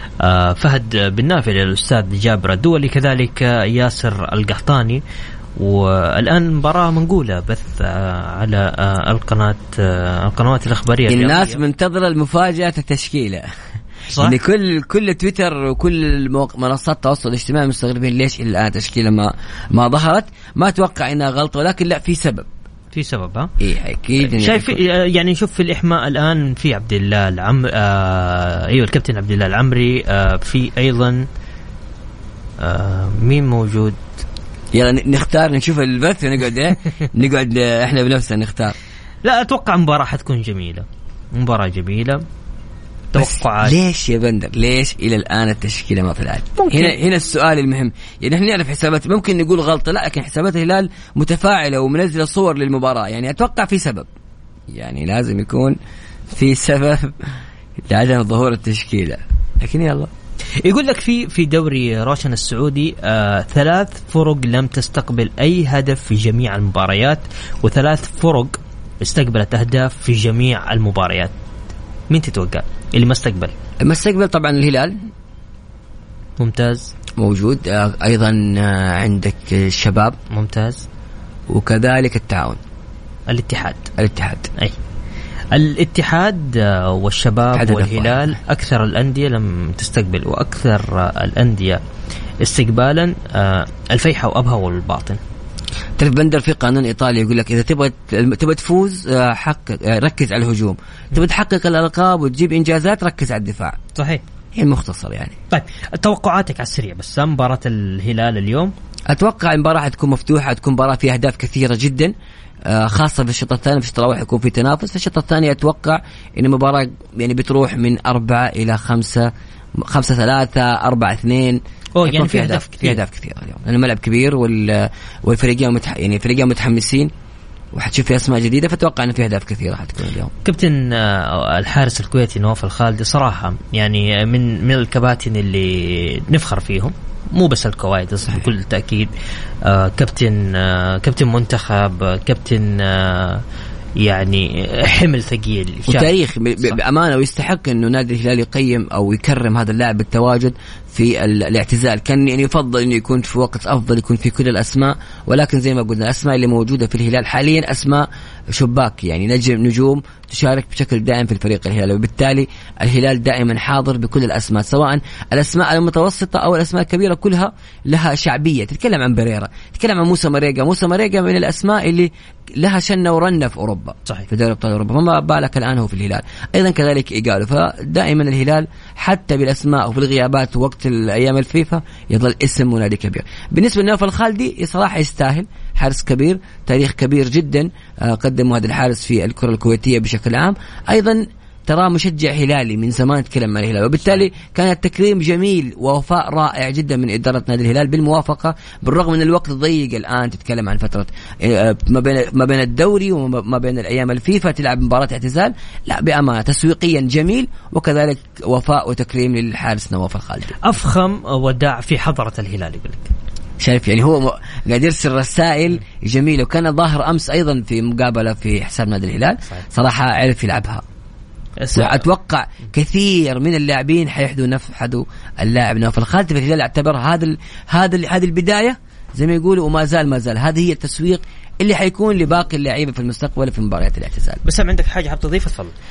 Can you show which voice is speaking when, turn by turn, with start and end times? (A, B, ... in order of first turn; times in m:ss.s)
0:00.2-0:05.0 A
0:05.6-0:11.6 A
0:11.1-0:13.5 B
0:14.1-0:14.4 A
0:14.2-0:22.5 B
0:22.9-0:23.5 A
0:23.6-0:24.8 B
0:24.2-0:31.2 A
0:32.6-0:34.1 A
0:34.7-0:38.7 B
0:39.2-0:40.8 A
0:41.4-0:42.2 A
0:43.1-0:43.8 A
0:43.2-0:54.1 B
0:46.6-0:46.9 A
0:54.7-0:55.8 B
0:56.3-0:57.1 B
0:57.9-1:00.1 B
1:00.6-1:11.3 A
1:12.1-1:13.6 A
1:13.8-1:15.0 B
1:16.4-1:16.9 A
1:17.2-1:20.2 B
1:20.3-1:20.8 A
1:21.5-1:22.6 B
1:23.3-1:23.9 A
1:24.0-1:24.5 B
1:25.5-1:31.8 A
1:27.5-1:28.4 B
1:32.4-1:35.2 A
1:36.0-1:43.8 B
1:44.0-1:44.2 A
1:44.6-1:45.3 B
1:45.5-1:48.7 A
1:49.1-1:52.1 B
1:52.7-2:07.1 B
2:02.0-2:03.0 A
2:07.7-2:10.3 B
2:10.4-2:19.1 A
2:19.6-2:23.4 A
2:24.0-2:26.8 A
2:25.9-3:30.6 B
3:30.6-3:33.1 A
3:33.6-3:40.8 B
3:41.6-3:42.0 A
3:41.7-3:54.4 B
3:54.4-3:55.7 A